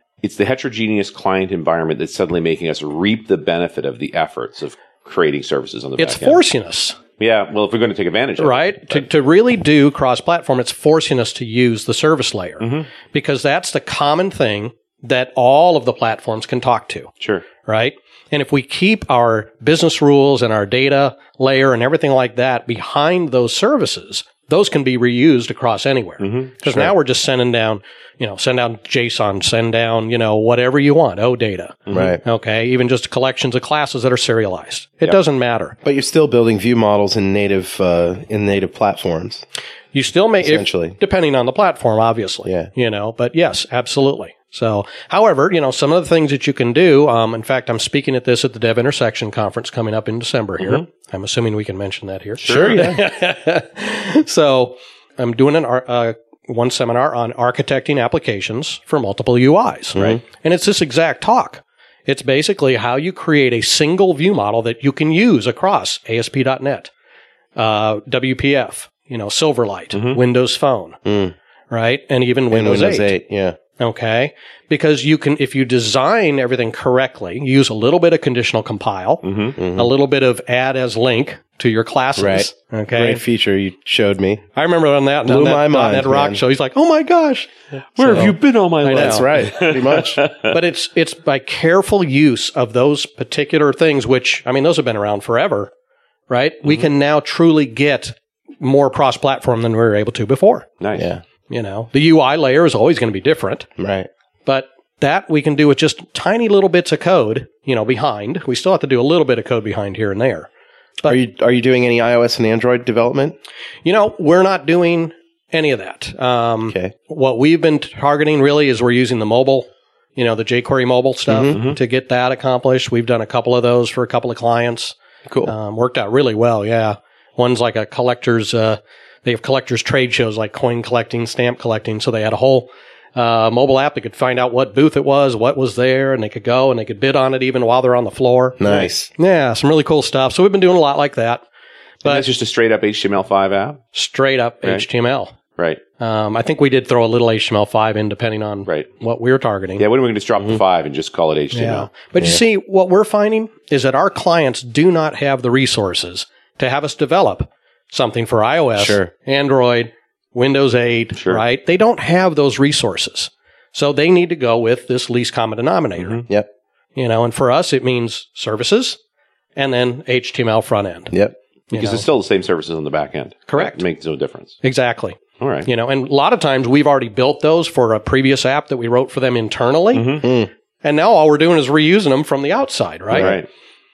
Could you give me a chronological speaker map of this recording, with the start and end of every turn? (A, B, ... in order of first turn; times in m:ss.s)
0:00.2-0:06.4 A
0:06.0-0:07.0 B
0:07.2-0:09.1 A
0:08.4-0:17.1 B
0:12.6-0:12.9 A
0:17.2-0:17.4 A
0:17.6-0:35.8 B
0:26.2-0:26.6 A
0:31.9-0:32.2 A
0:31.9-0:32.2 C
0:35.8-0:39.4 C
0:39.9-1:06.9 B
0:40.4-0:41.0 C
0:42.4-0:42.7 C
0:52.4-0:52.9 A
0:52.4-0:53.0 C
0:59.9-1:00.2 C
1:07.6-1:11.0 B
1:09.9-1:10.2 A
1:11.0-1:11.3 C
1:11.7-1:13.1 B
1:12.5-1:13.6 C
1:13.8-1:23.2 B
1:19.2-1:19.6 A
1:19.6-1:19.9 C
1:22.2-1:24.4 C
1:24.5-1:29.3 B
1:25.2-1:26.4 C
1:28.0-1:30.6 A
1:28.9-1:30.2 C
1:30.5-1:35.7 B
1:36.3-1:40.7 B
1:40.8-1:41.1 A
1:40.9-1:41.2 C
1:41.5-1:43.7 B
1:43.8-1:44.1 C
1:44.4-1:50.5 B
1:51.0-1:53.4 C
1:53.8-2:21.4 B
1:56.7-1:56.9 C
2:01.3-2:01.6 C
2:01.5-2:01.8 A
2:05.3-2:05.5 C
2:18.6-2:19.1 C
2:22.0-2:23.8 A
2:23.9-2:25.4 B
2:25.6-2:25.8 A
2:26.0-2:29.8 B
2:29.8-2:31.9 A
2:31.5-2:46.2 B
2:38.8-2:39.1 C
2:41.1-2:41.4 A
2:46.0-2:46.2 A
2:47.0-2:49.0 B
2:49.6-2:51.1 B
2:51.7-2:52.0 B
2:51.7-2:54.6 A
2:53.5-2:53.8 B
2:54.6-3:00.2 B
2:55.4-2:55.7 A
2:59.9-3:00.3 A
3:00.2-3:00.5 C
3:00.8-3:03.4 B
3:03.1-3:03.5 A